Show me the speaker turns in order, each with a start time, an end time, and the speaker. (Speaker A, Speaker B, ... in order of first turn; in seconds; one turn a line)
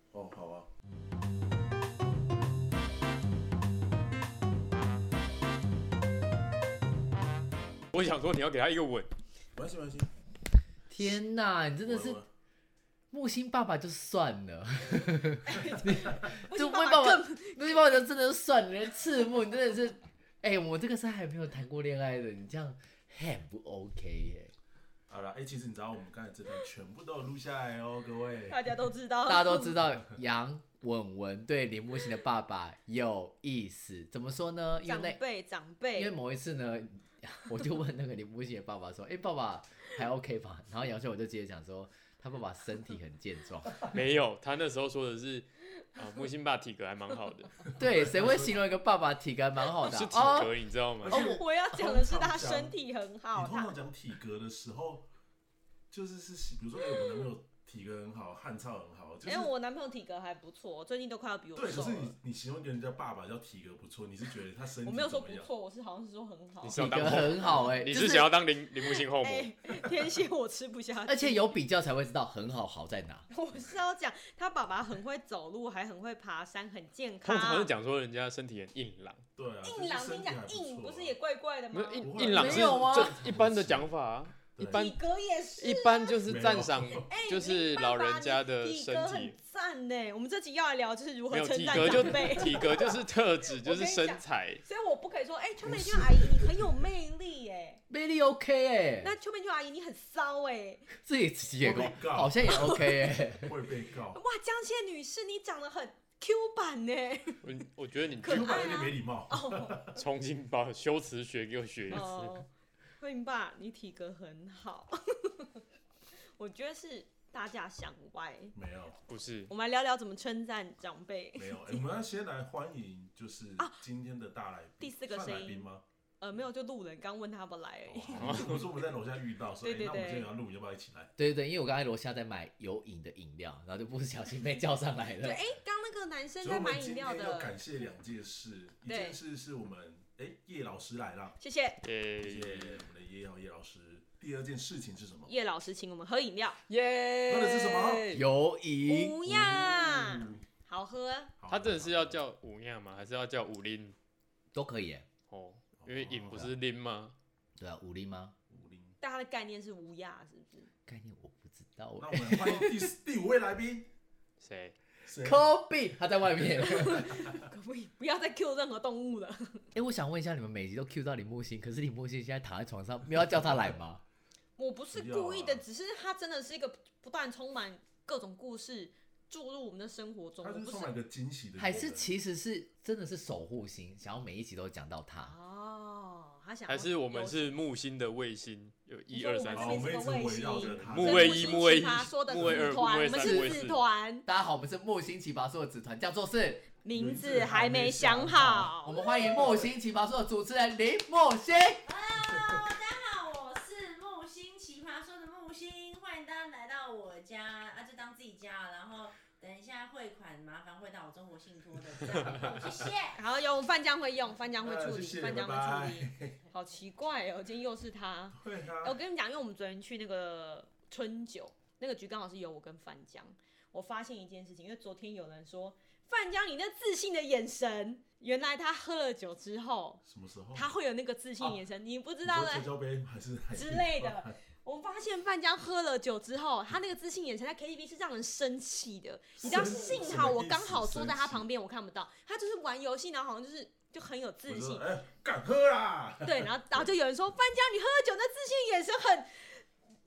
Speaker A: 0.1-0.7
Speaker B: 7.9-9.1
Speaker A: 9.5-10.1
Speaker C: 10.9-12.2
Speaker A: 11.8-12.3
Speaker C: 13.1-24.5
Speaker D: 15.4-18.0
Speaker A: 25.1-28.6
Speaker D: 28.5-29.8
Speaker C: 29.2-35.2
Speaker D: 34.8-36.1
Speaker C: 36.0-43.9
Speaker B: 43.8-47.8
Speaker C: 47.7-51.4
Speaker A: 47.8-48.6
Speaker B: 49.8-51.2
Speaker A: 51.0-52.7
Speaker D: 51.1-53.7
Speaker A: 53.3-55.0
Speaker A: 55.9-59.5
Speaker D: 56.9-57.2
Speaker D: 59.2-62.1
Speaker A: 61.5-65.5
Speaker D: 64.8-67.8
Speaker B: 66.6-69.5
Speaker C: 66.6-68.3
Speaker D: 68.8-71.5
Speaker C: 71.1-73.3
Speaker D: 73.3-77.7
Speaker B: 77.2-79.2
Speaker A: 79.3-81.2
Speaker D: 79.6-82.1
Speaker B: 81.7-85.0
Speaker A: 82.0-83.9
Speaker C: 82.3-83.2
Speaker A: 84.5-84.8
Speaker D: 84.6-86.3
Speaker B: 85.6-89.3
Speaker A: 86.3-87.1
Speaker D: 86.9-93.1
Speaker B: 91.3-94.6
Speaker D: 93.6-97.8
Speaker A: 95.6-96.7
Speaker C: 97.9-99.1
Speaker D: 99.0-100.9
Speaker C: 101.0-103.6
Speaker A: 101.6-102.8
Speaker D: 102.5-103.4
Speaker A: 103.3-104.2
Speaker D: 104.1-107.5
Speaker B: 107.4-108.8
Speaker D: 108.2-109.8
Speaker A: 108.2-110.0
Speaker B: 109.9-112.4
Speaker D: 111.9-112.5
Speaker D: 113.0-115.6
Speaker D: 116.4-118.5
Speaker A: 118.5-119.0
Speaker B: 119.1-119.5
Speaker D: 119.5-121.8
Speaker A: 121.3-125.8
Speaker D: 124.8-125.7
Speaker D: 126.2-128.6
Speaker A: 127.9-131.1
Speaker B: 128.2-128.7
Speaker D: 129.6-130.3
Speaker C: 131.2-135.4
Speaker D: 135.2-137.6
Speaker A: 136.4-141.4
Speaker D: 138.8-139.2
Speaker D: 141.4-141.8
Speaker B: 141.8-142.8
Speaker A: 142.2-145.3
Speaker D: 145.2-146.6
Speaker B: 146.7-148.2
Speaker A: 147.3-148.1
Speaker C: 148.1-149.2
Speaker D: 148.8-151.3
Speaker A: 149.2-150.4
Speaker A: 151.4-152.2
Speaker B: 151.5-153.9
Speaker C: 154.5-155.1
Speaker B: 155.3-157.1
Speaker A: 155.8-156.5
Speaker C: 157.6-158.3
Speaker A: 158.5-159.0
Speaker D: 159.0-160.7
Speaker C: 160.8-162.9
Speaker A: 162.0-163.9
Speaker B: 164.4-164.7
Speaker A: 165.0-165.5
Speaker C: 165.2-167.2
Speaker D: 166.6-169.7
Speaker C: 169.7-174.0
Speaker D: 174.6-180.9
Speaker A: 174.9-175.6
Speaker A: 180.4-182.1
Speaker C: 181.6-185.3
Speaker D: 185.2-187.6
Speaker B: 186.7-193.8
Speaker D: 189.1-194.3
Speaker A: 189.5-192.9
Speaker C: 193.1-193.6
Speaker C: 194.2-196.7
Speaker D: 196.8-199.0
Speaker A: 196.9-199.7
Speaker C: 198.8-201.8
Speaker E: 201.8-213.2
Speaker D: 213.1-230.0
Speaker A: 214.6-216.4
Speaker A: 218.3-219.0
Speaker A: 230.0-230.7
Speaker D: 230.5-232.7
Speaker A: 232.2-234.4
Speaker D: 233.5-244.8
Speaker A: 239.4-241.4
Speaker A: 244.5-246.9
Speaker D: 246.2-249.6